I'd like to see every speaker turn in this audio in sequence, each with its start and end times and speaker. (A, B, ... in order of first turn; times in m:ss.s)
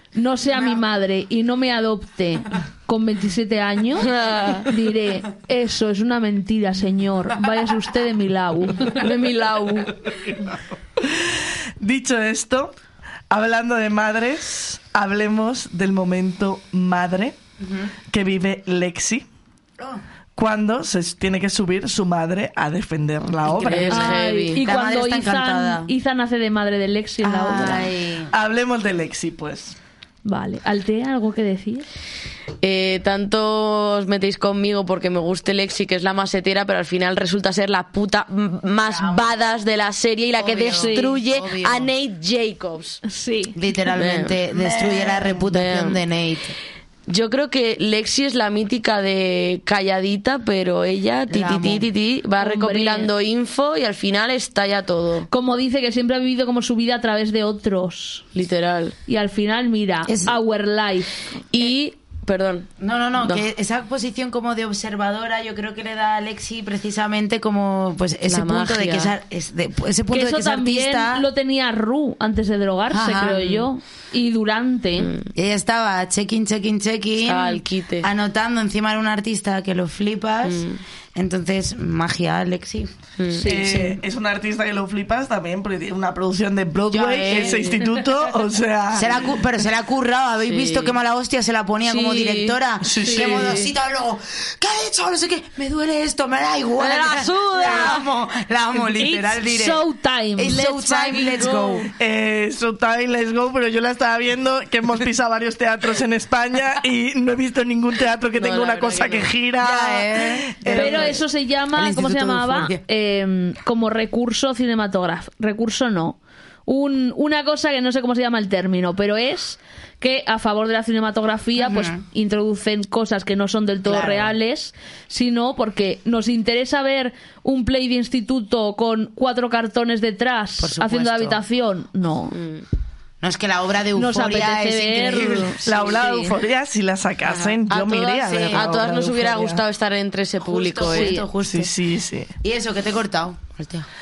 0:00.1-0:09.1 A
0:04.0-0:04.7 B
0:08.9-0:09.9 B
0:11.0-0:12.7 C
0:13.3-0:17.4 C
0:17.6-0:17.9 D
0:18.1-0:19.2 C
0:20.4-0:24.2 C
0:23.5-0:24.6 B
0:23.6-0:25.9 D
0:23.9-0:27.9 A
0:27.2-0:28.3 D
0:28.3-0:29.8 C
0:30.2-0:31.9 A
0:32.6-0:43.0 B
0:38.8-0:39.6 D
0:40.4-0:41.9 D
0:40.8-0:41.2 A
0:43.0-0:43.6 A
0:43.5-0:46.6 D
0:43.9-0:46.0 B
0:47.1-0:55.3 B
0:51.3-0:51.9 D
0:52.4-0:53.1 A
0:55.3-0:58.3 A
0:58.3-0:59.0 B
0:59.1-1:01.3 A
1:00.1-1:00.4 D
1:01.5-1:03.4 B
1:02.8-1:11.3 D
1:08.3-1:09.1 B
1:10.1-1:15.1 A
1:12.9-1:13.5 D
1:13.4-1:13.7 B
1:15.0-1:15.3 B
1:15.3-1:22.9 D
1:17.2-1:18.1 B
1:20.4-1:20.8 B
1:23.2-1:23.5 B
1:23.4-1:24.0 A
1:23.4-1:29.4 C
1:26.9-1:27.8 D
1:27.1-1:27.8 B
1:28.9-1:39.8 D
1:30.4-1:31.0 B
1:31.9-1:32.6 B
1:32.8-1:33.6 C
1:33.0-1:33.4 A
1:33.2-1:33.7 B
1:36.8-1:38.0 B
1:38.8-1:40.8 A
1:40.4-1:41.9 D
1:40.5-1:41.9 B
1:42.0-1:51.2 C
1:48.4-1:49.3 B
1:49.6-1:51.2 D
1:50.7-2:12.4 A
1:50.8-1:51.2 B
1:51.7-1:52.8 D
2:01.6-2:02.0 D
2:03.9-2:04.3 D
2:10.6-2:11.4 D
2:12.3-2:12.6 B
2:13.2-2:15.7 D
2:14.0-2:16.2 A
2:15.1-2:19.6 C
2:17.3-2:17.6 D
2:17.7-2:21.2 B
2:18.2-2:18.7 D
2:20.4-2:21.7 D
2:20.9-2:21.3 A
2:21.4-2:22.3 C
2:22.4-2:23.9 D